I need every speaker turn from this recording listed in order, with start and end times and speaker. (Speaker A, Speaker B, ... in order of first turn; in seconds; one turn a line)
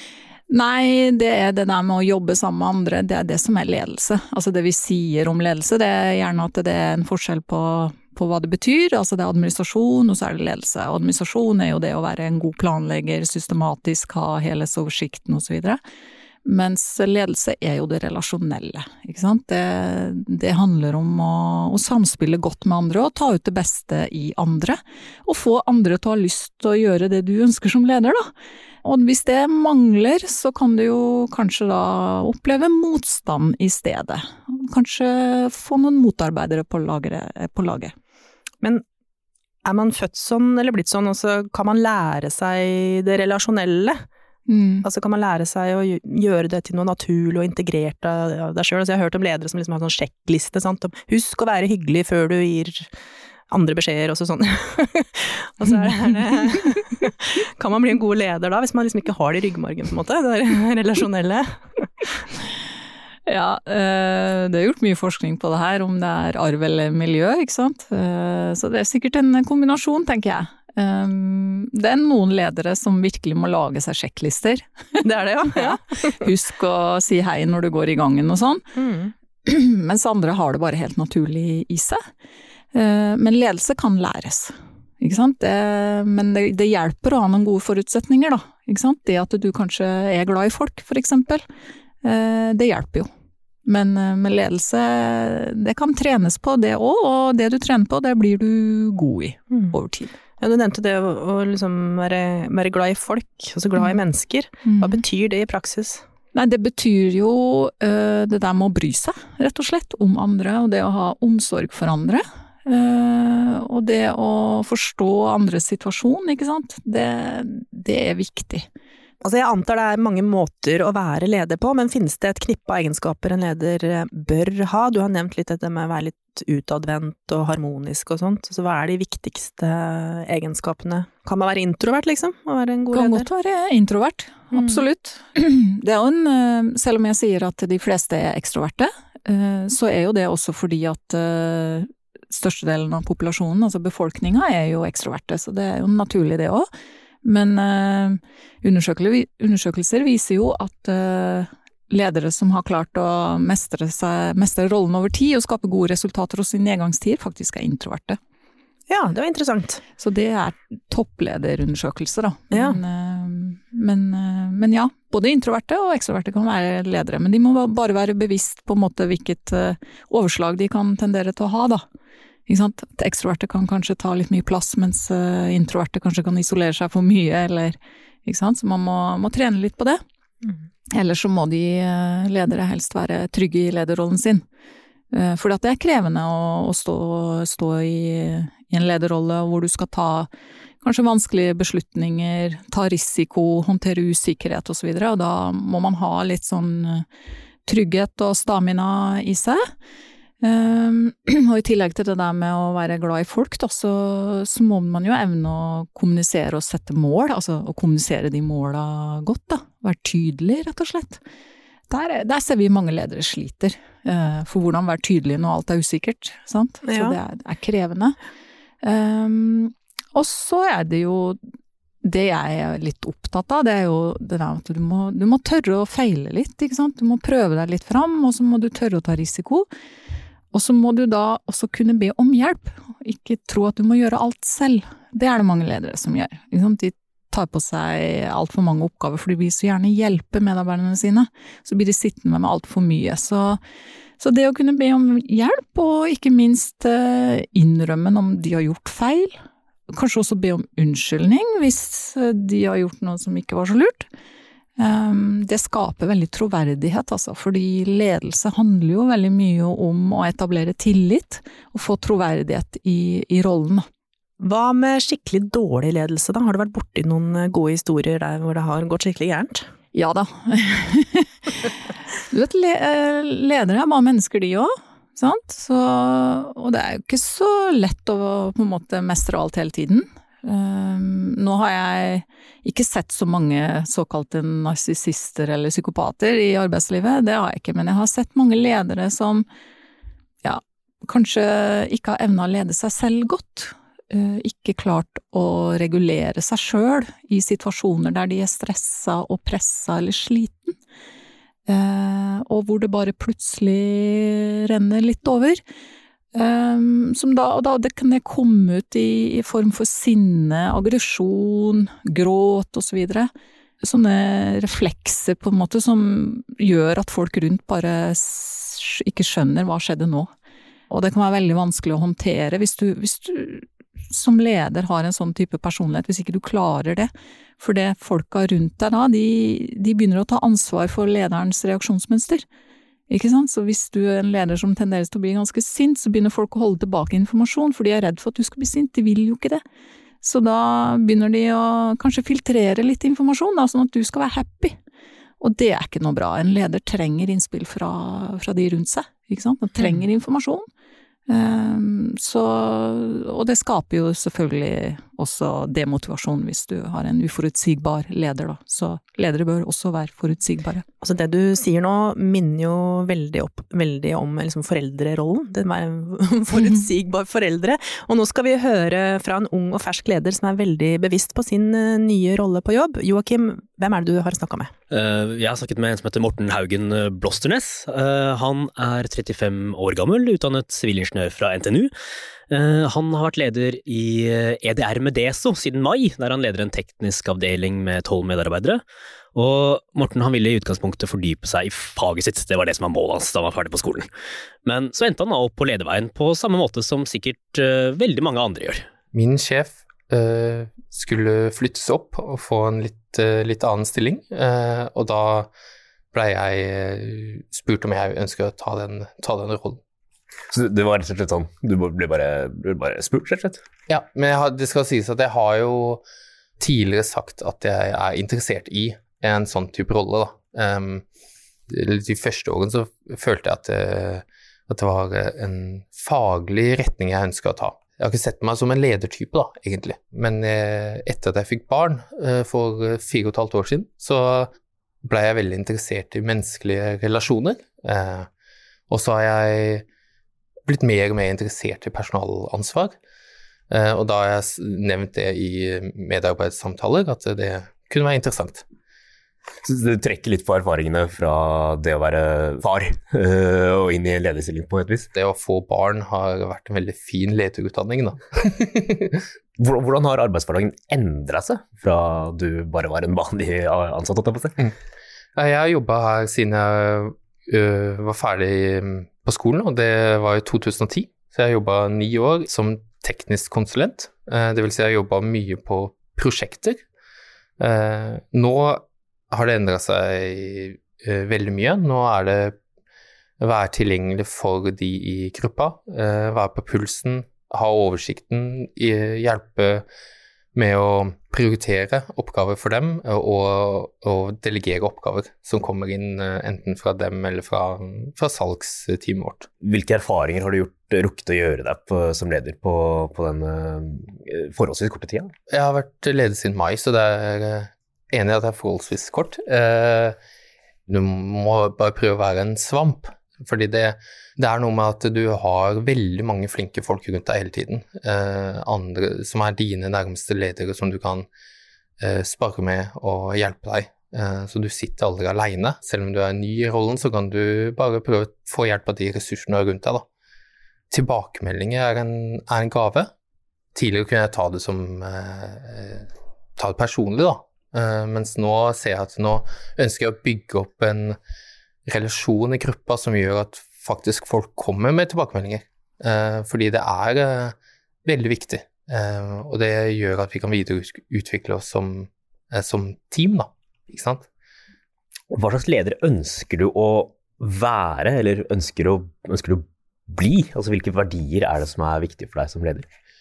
Speaker A: 0.5-15.8
Speaker A: 16.4-28.3
Speaker A: 28.8-37.9
Speaker B: 39.6-44.0
Speaker A: 44.5-44.9
Speaker B: 44.8-52.9
Speaker B: 53.5-61.6
Speaker A: 63.3-78.6
Speaker B: 75.0-76.1
Speaker B: 78.8-79.1
Speaker A: 79.5-82.0
Speaker A: 82.7-91.4
Speaker A: 92.0-93.1
Speaker A: 93.7-100.2
Speaker B: 100.4-106.0
Speaker A: 104.7-105.0
Speaker A: 106.3-118.7
Speaker B: 119.2-133.3
Speaker A: 132.9-146.7
Speaker B: 134.5-134.8
Speaker A: 147.2-158.2
Speaker B: 158.9-159.8
Speaker A: 160.0-171.8
Speaker B: 162.5-162.8
Speaker A: 172.5-180.0
Speaker A: 180.9-184.4
Speaker A: 185.1-190.3
Speaker A: 190.8-197.1
Speaker A: 197.7-199.6
Speaker A: 200.4-211.2
Speaker A: 211.9-218.2
Speaker B: 216.8-217.2
Speaker A: 218.8-221.4
Speaker A: 222.0-229.7
Speaker A: 230.5-243.6
Speaker A: 244.2-249.4
Speaker A: 249.9-254.1
Speaker A: 254.8-263.8
Speaker B: 264.4-269.7
Speaker A: 269.9-271.7
Speaker A: 272.3-289.5
Speaker A: 290.4-300.8
Speaker A: 301.7-305.6
Speaker A: 306.3-313.3
Speaker A: 313.8-320.3
Speaker A: 320.9-332.4
Speaker A: 333.1-339.6
Speaker A: 340.2-344.8
Speaker A: 345.4-350.6
Speaker A: 351.3-360.9
Speaker B: 361.0-374.7
Speaker A: 366.6-366.8
Speaker C: 374.9-381.9
Speaker C: 382.5-388.8
Speaker C: 389.4-394.1
Speaker C: 394.6-398.9
Speaker D: 399.1-405.5
Speaker D: 406.1-409.8
Speaker E: 410.5-413.6
Speaker D: 413.9-416.0
Speaker D: 416.6-421.0
Speaker D: 421.7-434.5
Speaker D: 435.0-438.3
Speaker D: 438.9-439.9
Speaker D: 440.7-442.9
Speaker D: 443.7-448.6
Speaker E: 449.6-455.1
Speaker D: 455.1-459.2
Speaker E: 459.6-464.7
Speaker D: 465.4-476.8
Speaker D: 477.6-482.6
Speaker D: 483.4-489.9
Speaker D: 490.6-499.5
Speaker E: 499.6-505.3
Speaker D: 505.5-510.2
Speaker D: 510.9-521.3
Speaker D: 522.0-530.0
Speaker D: 530.9-533.1
Speaker D: 533.8-541.2
Speaker D: 541.9-554.3
Speaker E: 555.3-562.9